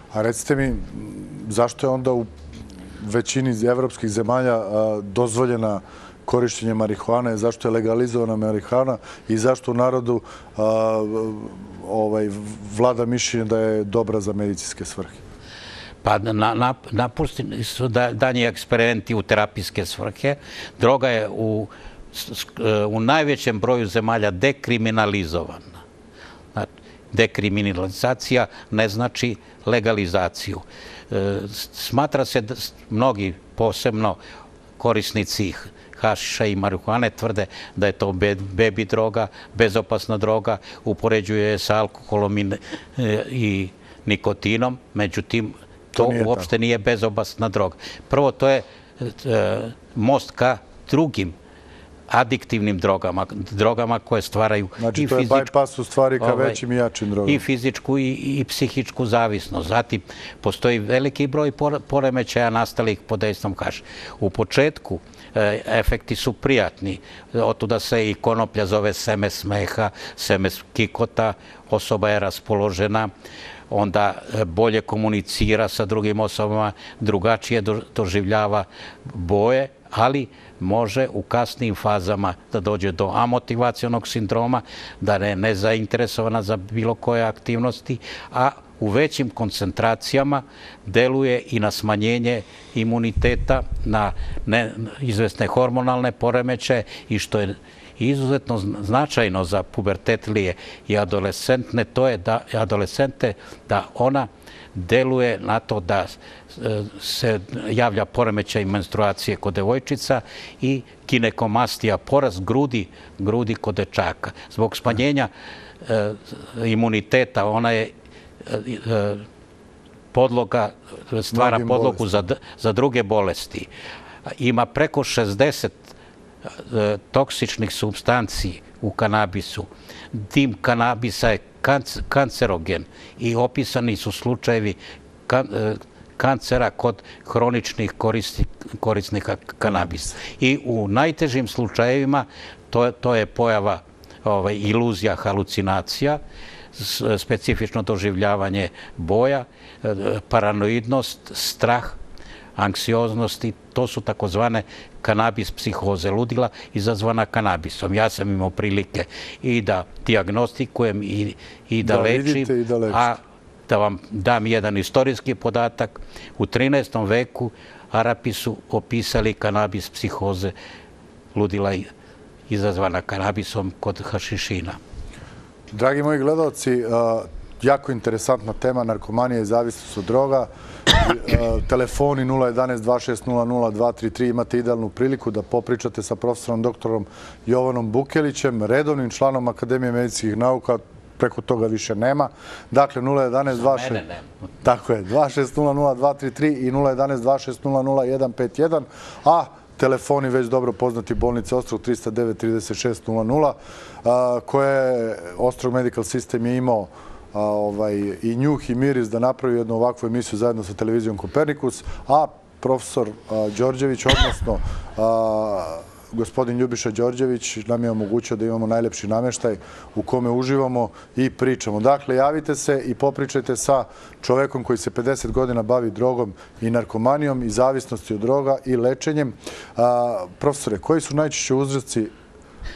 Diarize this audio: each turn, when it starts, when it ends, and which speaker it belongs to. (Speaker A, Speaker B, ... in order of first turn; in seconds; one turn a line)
Speaker A: 0.1-2.3
Speaker A: 3.0-15.2
Speaker B: 16.0-25.8
Speaker B: 26.5-34.2
Speaker B: 34.8-51.3
Speaker A: 46.0-46.5
Speaker B: 52.1-55.5
Speaker A: 54.8-57.4
Speaker B: 56.2-56.6
Speaker B: 57.2-73.1
Speaker B: 73.7-115.3
Speaker B: 115.8-117.9
Speaker B: 118.4-119.2
Speaker B: 120.1-123.7
Speaker A: 121.3-122.2
Speaker B: 124.3-125.9
Speaker B: 126.5-146.2
Speaker B: 146.7-152.0
Speaker B: 152.6-170.5
Speaker A: 161.8-163.1
Speaker B: 171.3-171.9
Speaker B: 172.5-174.8
Speaker A: 175.7-194.0
Speaker B: 193.5-194.3
Speaker A: 194.6-232.1